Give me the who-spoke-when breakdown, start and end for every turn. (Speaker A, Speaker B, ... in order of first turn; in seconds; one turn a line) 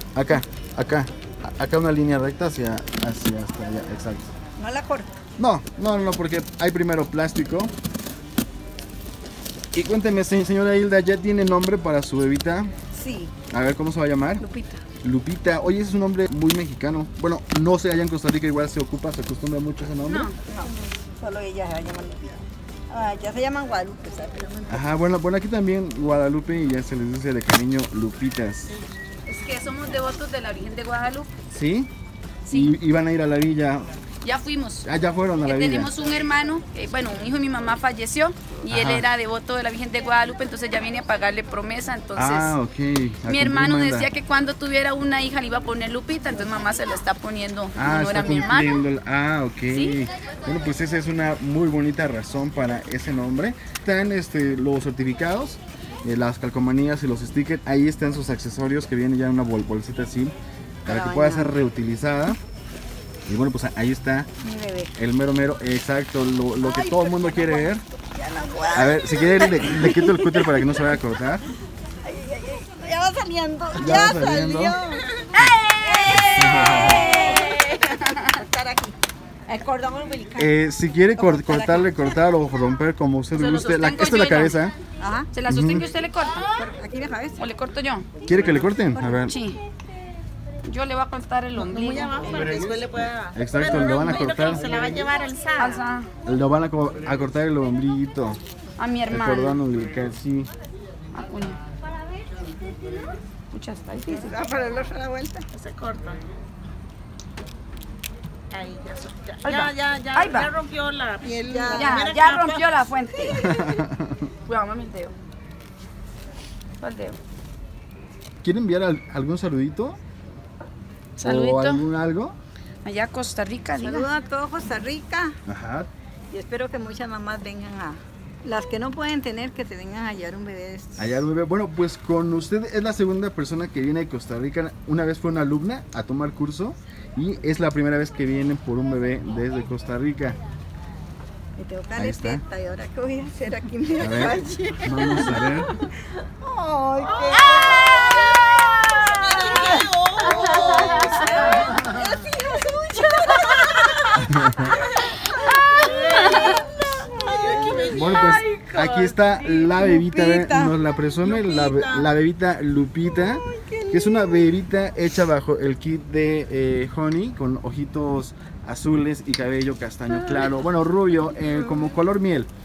Speaker A: 0.1-4.3
Speaker B: 4.6-5.2
Speaker A: 5.4-7.7
Speaker A: 9.7-12.7
Speaker B: 12.9-13.3
Speaker A: 13.5-14.4
Speaker B: 14.4-14.8
Speaker A: 15.0-20.3
Speaker C: 20.0-20.3
Speaker B: 20.5-24.9
Speaker A: 24.7-28.7
Speaker C: 29.2-31.3
Speaker A: 31.5-31.9
Speaker C: 32.5-32.8
Speaker A: 32.5-33.9
Speaker C: 34.2-34.9
Speaker A: 34.8-35.9
Speaker C: 35.4-42.6
Speaker A: 38.7-39.1
Speaker A: 42.1-44.1
Speaker C: 43.2-48.8
Speaker A: 47.8-62.4
Speaker C: 49.7-50.0
Speaker B: 60.9-61.5
Speaker A: 63.2-64.3
Speaker B: 64.4-64.9
Speaker A: 65.0-67.8
Speaker B: 66.6-70.8
Speaker A: 68.7-71.5
Speaker B: 72.0-79.0
Speaker A: 73.8-74.8
Speaker C: 75.3-78.0
Speaker A: 76.2-77.0
Speaker B: 79.5-80.5
Speaker A: 80.4-84.8
Speaker B: 81.2-82.1
Speaker C: 83.3-84.6
Speaker B: 85.0-85.3
Speaker C: 85.3-86.5
Speaker A: 85.5-85.9
Speaker B: 86.5-87.4
Speaker C: 87.4-88.1
Speaker A: 88.2-89.3
Speaker B: 88.9-89.2
Speaker C: 89.2-89.6
Speaker C: 90.6-92.5
Speaker D: 91.5-95.8
Speaker A: 92.2-94.6
Speaker C: 95.6-96.1
Speaker A: 96.2-98.4
Speaker C: 98.8-99.6
Speaker A: 99.1-100.5
Speaker C: 101.1-101.6
Speaker C: 103.5-104.3
Speaker B: 104.1-105.5
Speaker D: 105.5-106.2
Speaker D: 108.5-112.9
Speaker C: 109.4-110.5
Speaker B: 111.5-112.0
Speaker C: 111.7-113.5
Speaker B: 113.3-113.8
Speaker A: 113.4-114.3
Speaker C: 114.5-115.1
Speaker C: 116.8-117.2
Speaker A: 118.4-120.0
Speaker C: 121.2-121.8
Speaker A: 121.2-122.3
Speaker C: 122.8-124.1
Speaker B: 123.8-125.3
Speaker A: 125.5-125.9
Speaker B: 126.3-131.2
Speaker A: 131.0-140.4
Speaker B: 141.6-158.0
Speaker A: 141.9-142.4
Speaker A: 144.0-145.7
Speaker D: 147.1-151.6
Speaker C: 148.6-148.8
Speaker C: 150.3-151.5
Speaker A: 154.3-154.7
Speaker C: 155.4-156.6
Speaker D: 155.8-156.6
Speaker D: 157.2-158.4
Speaker C: 157.9-159.7
Speaker A: 157.9-172.5
Speaker B: 159.7-160.8
Speaker D: 161.2-162.0
Speaker B: 163.2-164.5